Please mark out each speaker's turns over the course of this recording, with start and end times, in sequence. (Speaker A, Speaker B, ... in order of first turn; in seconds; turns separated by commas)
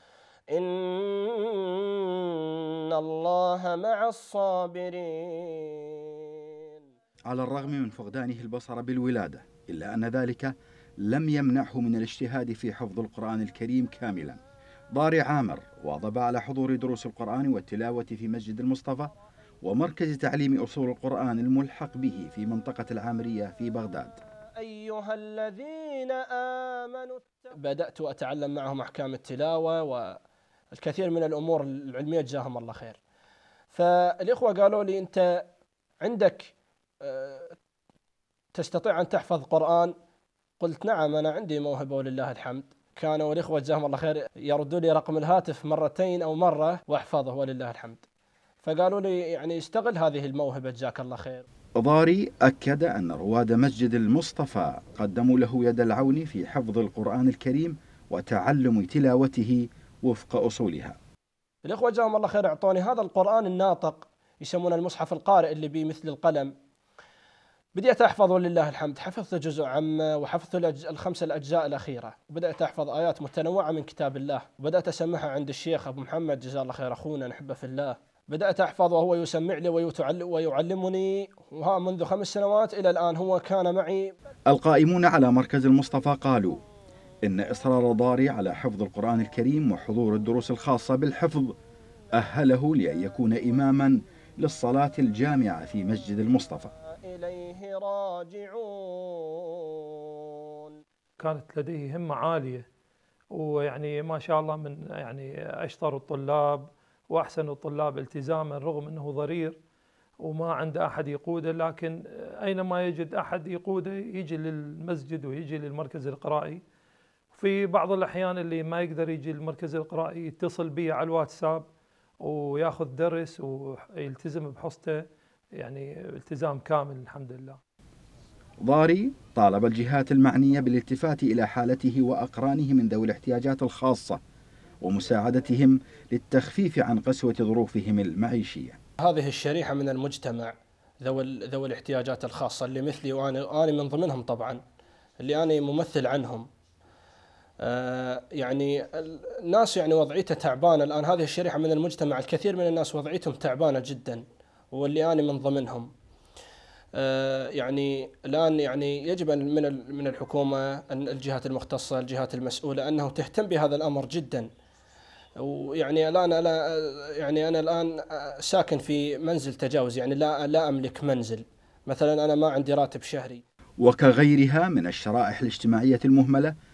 Speaker A: 0.5-6.8, Speaker B: 7.3-14.4, Speaker B: 14.9-24.2, Speaker A: 24.6-30.2, Speaker A: 30.7-33.0, Speaker A: 33.7-35.4, Speaker A: 36.0-37.6, Speaker A: 38.5-39.9, Speaker A: 40.6-48.1, Speaker A: 48.6-51.5, Speaker B: 51.8-61.0, Speaker A: 61.6-66.5, Speaker A: 67.8-84.1, Speaker B: 84.5-86.6, Speaker B: 87.2-91.5, Speaker B: 92.1-96.7, Speaker A: 97.0-100.8, Speaker C: 101.2-102.7, Speaker C: 103.3-109.6, Speaker C: 110.2-116.6, Speaker C: 117.3-121.7, Speaker C: 122.2-125.0, Speaker C: 125.6-127.6, Speaker B: 128.6-134.2, Speaker B: 134.8-138.8, Speaker A: 139.0-144.6, Speaker A: 145.2-146.5, Speaker A: 147.6-155.9, Speaker A: 156.9-164.5, Speaker A: 165.4-173.4, Speaker B: 173.8-176.5